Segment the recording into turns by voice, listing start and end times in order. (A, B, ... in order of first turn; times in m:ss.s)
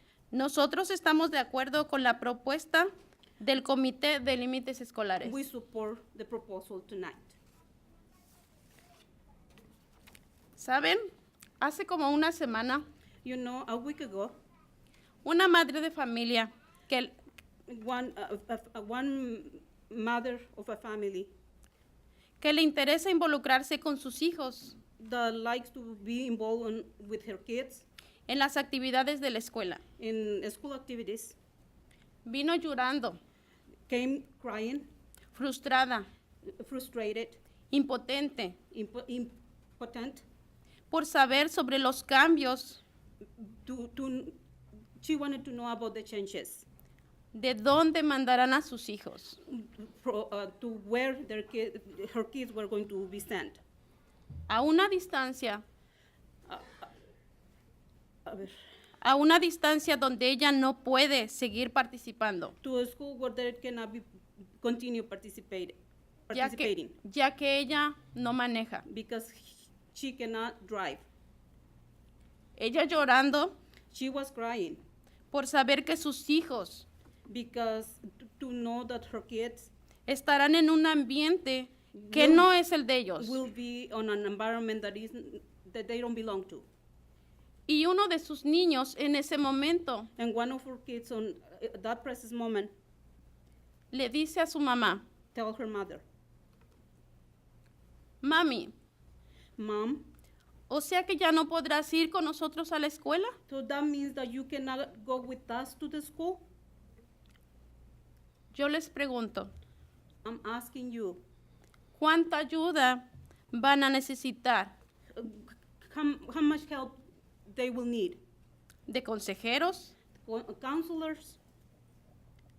0:00.3-0:05.4 A
0:05.2-0:07.4 B
0:10.6-0:11.0 A
0:11.6-0:12.8 A
0:13.2-0:14.4 B
0:15.2-0:17.2 A
0:17.7-0:21.3 B
0:22.4-0:24.8 A
0:25.0-0:27.9 B
0:28.3-0:29.8 A
0:30.0-0:31.4 B
0:32.2-0:33.2 A
0:33.9-0:34.9 B
0:35.3-0:36.1 A
0:36.6-0:37.4 B
0:37.7-0:38.6 A
0:38.7-0:40.2 B
0:40.9-0:42.8 A
0:43.4-0:44.4 B
0:45.0-0:46.7 B
0:47.3-0:49.4 A
0:49.5-0:53.6 B
0:54.5-0:55.6 A
0:56.5-0:56.9 B
0:58.3-0:58.6 B
0:59.0-1:02.6 A
1:02.6-1:04.0 B
1:04.6-1:05.8 B
1:06.3-1:07.0 B
1:06.3-1:08.8 A
1:08.9-1:11.0 B
1:12.6-1:13.6 A
1:13.9-1:14.8 B
1:15.3-1:16.9 A
1:17.3-1:19.7 B
1:20.1-1:23.4 A
1:22.0-1:22.5 B
1:23.2-1:26.7 B
1:27.7-1:30.1 A
1:30.2-1:32.7 B
1:33.9-1:35.0 A
1:35.3-1:36.0 B
1:38.2-1:38.7 A
1:39.6-1:40.1 B
1:40.7-1:43.4 A
1:43.5-1:46.4 B
1:48.5-1:49.5 A
1:50.2-1:51.2 B
1:52.0-1:54.8 A
1:55.2-1:58.2 B
1:58.9-1:59.9 A
2:00.2-2:01.4 B